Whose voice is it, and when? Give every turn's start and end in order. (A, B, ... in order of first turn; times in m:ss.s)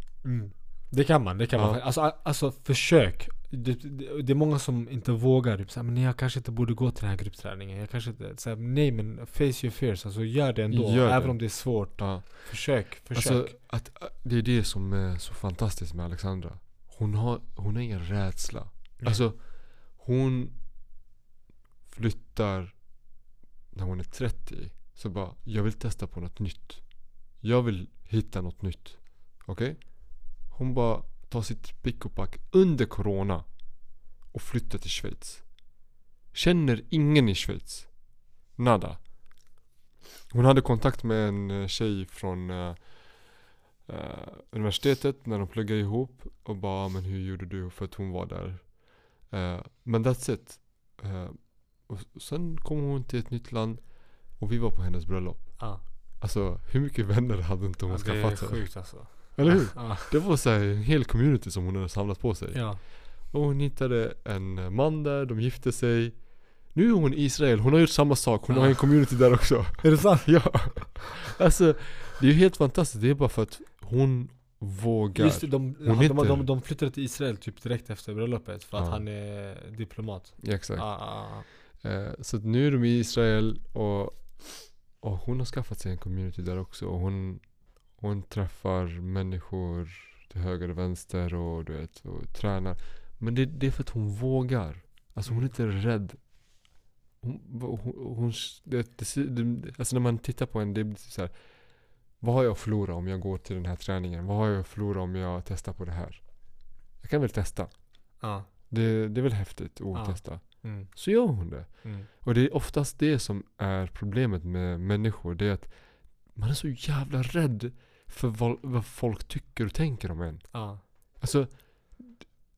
0:00.2-0:13.5 A
0:01.6-0:01.8 B
0:10.7-0:20.6 B
0:19.0-0:19.2 A
0:21.9-0:23.0 B
0:23.7-0:35.8 B
0:36.3-0:39.0 B
0:40.3-1:16.5 B
0:57.9-1:00.1 A
1:02.5-1:02.8 A
1:08.5-1:08.9 A
1:09.8-1:10.9 A
1:15.1-1:21.5 A
1:18.7-1:19.0 B
1:20.4-1:36.4 B
1:35.2-1:35.5 A
1:37.2-2:02.3 B
1:48.2-1:48.5 A
1:49.9-1:52.1 A
2:00.5-2:00.8 A